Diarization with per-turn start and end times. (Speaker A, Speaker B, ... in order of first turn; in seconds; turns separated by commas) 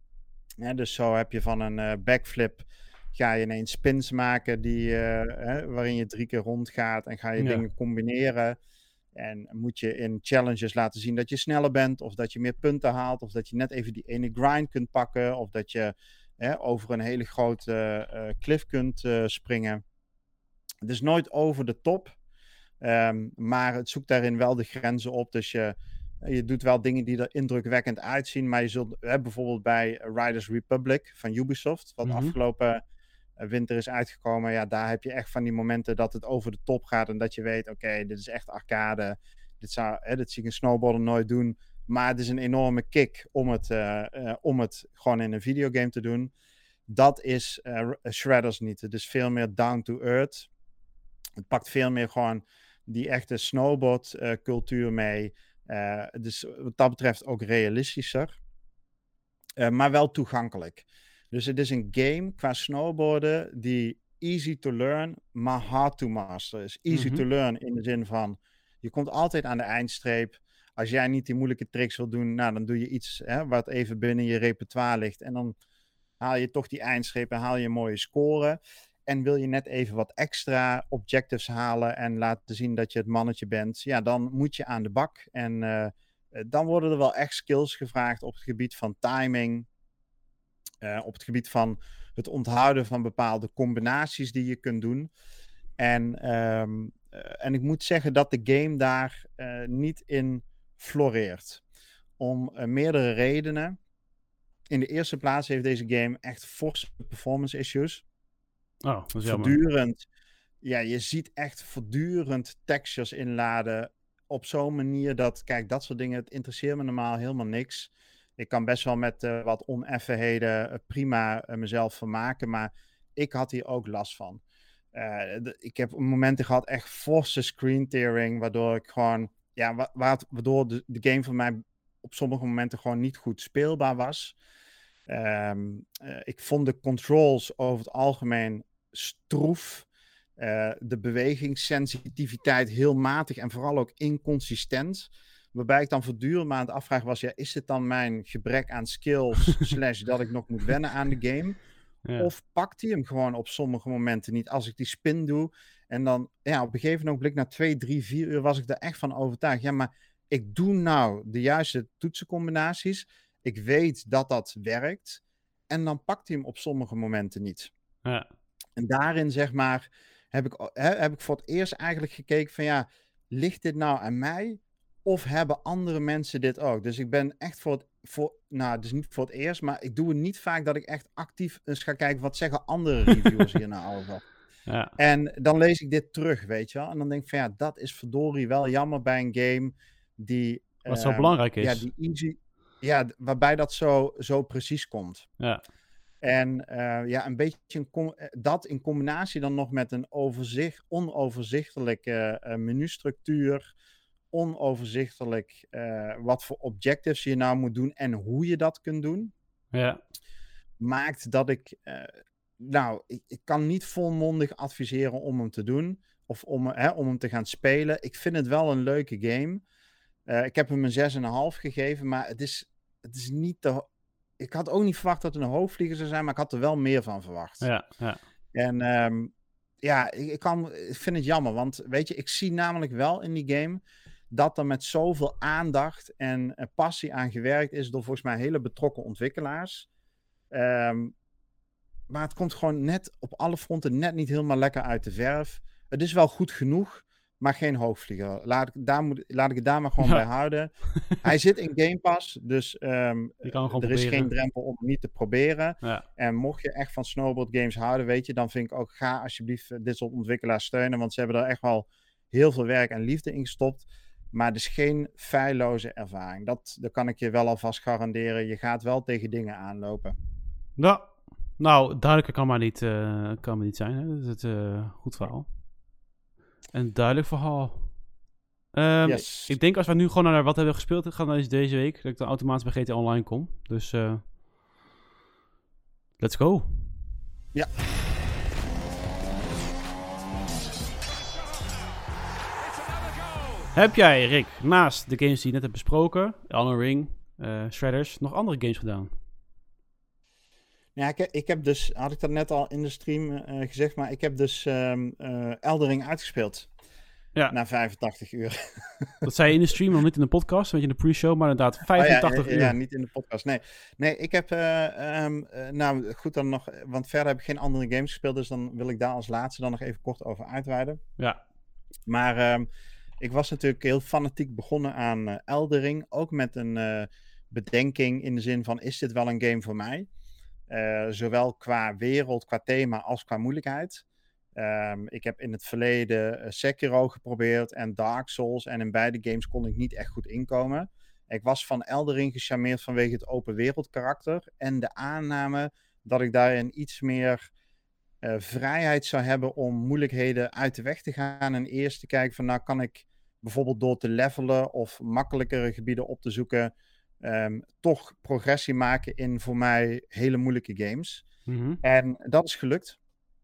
Speaker A: 0.6-8.6, Speaker B: 7.4-7.6, Speaker A: 9.1-19.8, Speaker A: 20.8-22.1, Speaker A: 22.8-32.8, Speaker B: 32.0-32.3, Speaker A: 33.4-46.3, Speaker A: 46.9-50.5, Speaker A: 51.4-58.3, Speaker A: 59.6-75.5, Speaker B: 66.9-67.2, Speaker A: 76.2-89.7, Speaker A: 90.8-95.1, Speaker A: 95.8-101.6, Speaker A: 102.2-103.8, Speaker A: 104.7-108.0, Speaker B: 108.8-109.6, Speaker A: 109.2-110.0, Speaker A: 110.6-124.4, Speaker A: 124.9-134.3, Speaker A: 135.1-139.9, Speaker A: 140.4-151.6, Speaker B: 152.0-152.3, Speaker A: 152.2-167.7, Speaker A: 168.8-184.2, Speaker B: 184.7-184.9, Speaker A: 185.0-195.3, Speaker B: 190.8-191.8, Speaker A: 196.2-203.7, Speaker A: 204.3-209.3, Speaker B: 209.7-210.0, Speaker A: 210.8-219.6, Speaker A: 220.3-223.8, Speaker A: 224.4-227.7, Speaker B: 227.6-228.2, Speaker A: 228.5-239.9, Speaker A: 240.5-241.1, Speaker A: 242.1-250.7, Speaker A: 251.2-270.1, Speaker B: 253.4-254.3, Speaker B: 270.8-275.4, Speaker B: 276.7-277.9, Speaker B: 278.7-284.2, Speaker A: 279.0-279.5, Speaker B: 286.2-286.9, Speaker B: 293.7-299.1, Speaker A: 300.9-306.7, Speaker A: 307.5-309.3, Speaker B: 309.2-312.8, Speaker A: 311.9-321.0, Speaker A: 322.1-322.7, Speaker A: 323.2-330.1, Speaker A: 330.7-334.0, Speaker A: 334.6-347.5, Speaker A: 348.2-361.2, Speaker B: 361.5-361.8, Speaker A: 361.8-363.0